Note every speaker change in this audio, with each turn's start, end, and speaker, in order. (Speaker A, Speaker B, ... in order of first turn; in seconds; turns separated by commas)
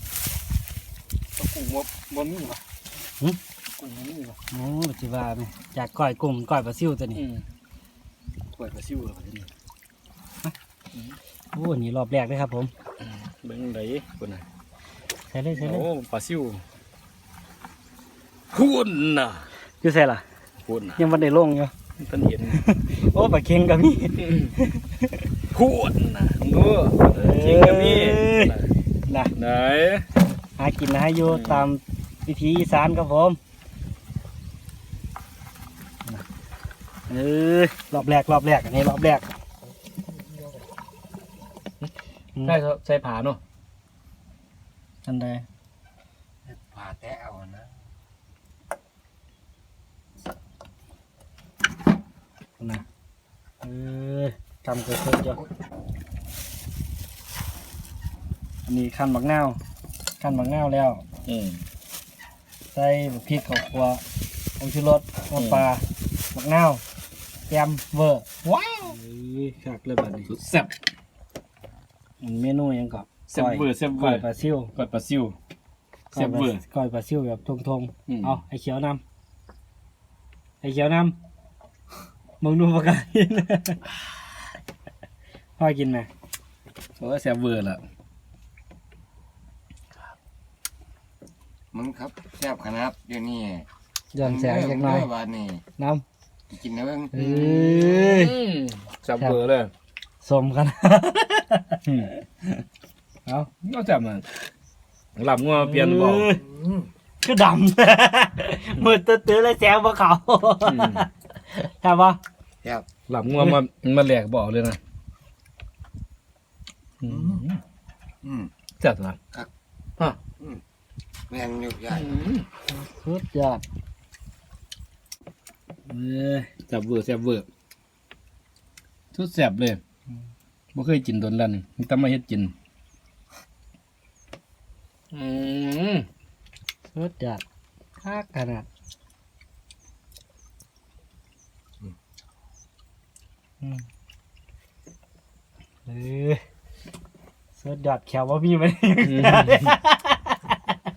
Speaker A: 1.4-2.6, Speaker A: 3.7-4.4, Speaker B: 4.5-7.2, Speaker A: 7.1-7.4, Speaker A: 8.5-9.5, Speaker B: 11.5-12.7, Speaker A: 13.0-14.4, Speaker B: 15.3-15.9, Speaker A: 15.5-16.6, Speaker A: 18.5-19.5, Speaker B: 19.8-20.2, Speaker A: 20.6-21.0, Speaker B: 21.0-21.7, Speaker A: 22.0-22.6, Speaker B: 22.5-25.1, Speaker A: 24.2-24.5, Speaker A: 25.5-28.7, Speaker B: 27.1-28.5, Speaker B: 29.1-29.3, Speaker A: 29.4-30.1, Speaker B: 30.5-33.4, Speaker A: 31.2-31.7, Speaker B: 37.1-39.2, Speaker C: 40.1-40.6, Speaker A: 42.4-43.4, Speaker B: 45.0-45.4, Speaker C: 46.5-47.7, Speaker B: 52.6-52.8, Speaker B: 53.6-55.4, Speaker B: 58.6-59.6, Speaker B: 60.2-61.0, Speaker A: 61.3-61.6, Speaker B: 62.7-64.0, Speaker B: 64.6-66.8, Speaker A: 65.3-65.7, Speaker B: 67.5-68.2, Speaker A: 68.4-68.9, Speaker B: 68.8-70.3, Speaker A: 70.3-70.7, Speaker B: 72.2-74.7, Speaker A: 73.3-74.2, Speaker A: 74.8-75.3, Speaker A: 76.1-76.6, Speaker B: 76.1-79.0, Speaker A: 78.1-78.4, Speaker B: 80.6-81.1, Speaker B: 82.4-83.8, Speaker B: 85.6-86.1, Speaker A: 87.0-87.8, Speaker C: 91.7-93.7, Speaker B: 94.1-95.1, Speaker C: 94.2-95.6, Speaker B: 95.8-96.0, Speaker C: 96.5-97.1, Speaker B: 97.1-98.3, Speaker A: 97.1-99.7, Speaker B: 100.2-101.8, Speaker A: 101.8-102.1, Speaker A: 103.6-104.2, Speaker A: 105.2-106.3, Speaker B: 105.5-106.4, Speaker C: 106.3-106.9, Speaker B: 107.2-112.2, Speaker A: 110.6-111.1, Speaker A: 113.1-114.8, Speaker A: 117.0-117.6, Speaker C: 117.0-117.4, Speaker C: 118.2-118.5, Speaker A: 118.8-119.2, Speaker C: 121.3-122.2, Speaker A: 121.9-122.5, Speaker B: 122.7-123.6, Speaker B: 125.9-126.5, Speaker A: 126.6-127.5, Speaker A: 129.1-129.8, Speaker A: 130.7-132.5, Speaker A: 135.1-136.1, Speaker B: 136.9-137.4, Speaker B: 138.0-138.7, Speaker B: 145.8-146.4, Speaker B: 147.5-150.6, Speaker A: 149.0-149.7